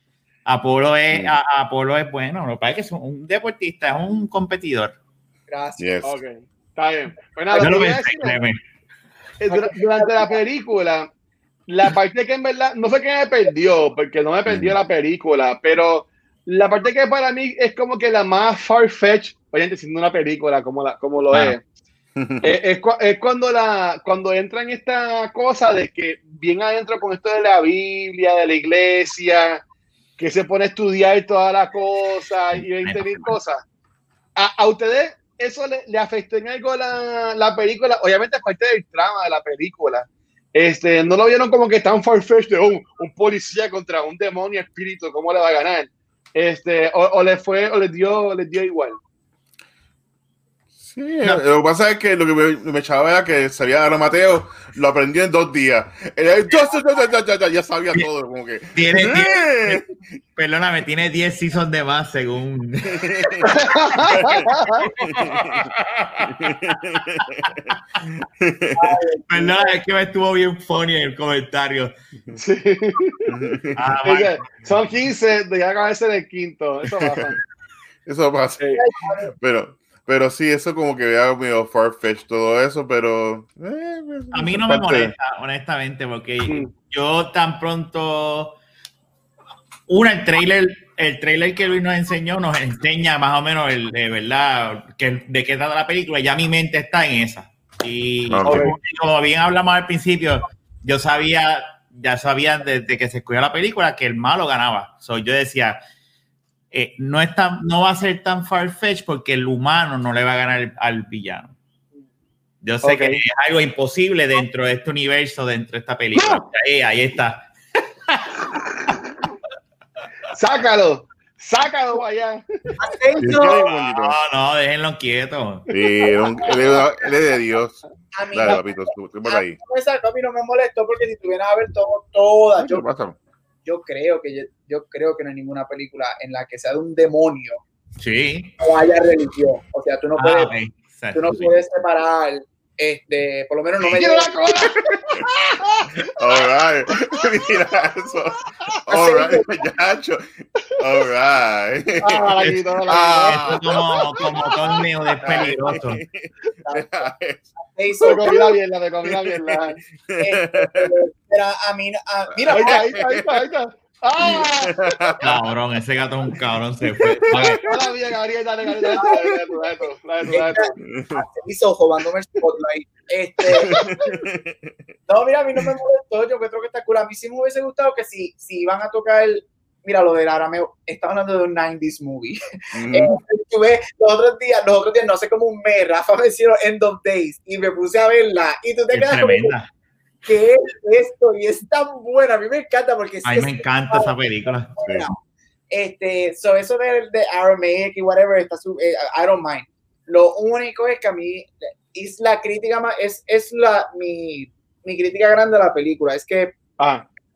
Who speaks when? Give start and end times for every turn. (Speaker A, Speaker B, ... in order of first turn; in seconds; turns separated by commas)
Speaker A: 0.5-5.0, Speaker B: 5.5-5.9, Speaker C: 5.8-6.2, Speaker D: 6.0-8.4, Speaker A: 7.5-8.6, Speaker D: 9.4-11.1, Speaker B: 9.5-10.4, Speaker D: 11.7-21.6, Speaker C: 14.5-14.8, Speaker C: 22.2-22.6, Speaker D: 22.4-29.6, Speaker D: 30.2-33.6, Speaker A: 32.8-33.4, Speaker D: 34.4-49.0, Speaker C: 50.8-59.8, Speaker A: 58.8-59.8, Speaker A: 60.4-63.5, Speaker C: 63.1-63.4, Speaker D: 63.5-64.9, Speaker A: 64.8-66.8, Speaker C: 65.0-65.6, Speaker C: 66.3-69.0, Speaker B: 68.8-69.7, Speaker A: 69.3-71.9, Speaker D: 72.3-73.3, Speaker C: 73.3-73.8, Speaker A: 73.8-74.5, Speaker D: 74.0-77.3, Speaker C: 76.9-77.3, Speaker C: 78.1-78.8, Speaker B: 78.8-79.3, Speaker C: 79.3-85.1, Speaker A: 84.3-88.6, Speaker A: 89.9-105.8, Speaker C: 98.3-98.7, Speaker D: 98.4-98.8, Speaker A: 106.7-111.5, Speaker A: 112.6-117.5, Speaker D: 112.8-113.2, Speaker D: 116.2-116.4, Speaker D: 120.3-122.7, Speaker B: 122.8-123.6, Speaker C: 123.2-124.2, Speaker A: 123.3-125.7, Speaker C: 125.7-127.8, Speaker D: 125.7-126.1, Speaker B: 128.1-132.9, Speaker C: 128.3-129.6, Speaker C: 132.6-133.2, Speaker B: 133.7-137.6, Speaker A: 138.0-138.5, Speaker B: 138.6-140.5, Speaker A: 140.2-141.6, Speaker B: 141.1-144.7, Speaker D: 143.9-146.0, Speaker C: 146.1-153.7, Speaker B: 148.9-149.5, Speaker D: 152.0-153.8, Speaker A: 153.2-156.0, Speaker C: 155.2-158.3, Speaker B: 155.3-155.5, Speaker B: 156.7-158.6, Speaker D: 158.0-159.8, Speaker C: 159.1-160.9, Speaker B: 160.2-162.9, Speaker C: 162.3-163.5, Speaker D: 162.5-165.2, Speaker C: 164.2-165.3, Speaker A: 165.2-167.6, Speaker D: 167.3-170.8, Speaker B: 168.9-169.4, Speaker B: 170.3-173.8, Speaker C: 170.3-171.3, Speaker C: 173.5-174.8, Speaker D: 173.6-174.1, Speaker B: 175.1-189.5, Speaker C: 182.7-183.2, Speaker A: 188.9-189.7, Speaker B: 190.2-194.1, Speaker A: 193.2-194.7, Speaker B: 194.8-195.1, Speaker C: 194.8-195.1, Speaker B: 195.7-206.6, Speaker D: 206.8-207.1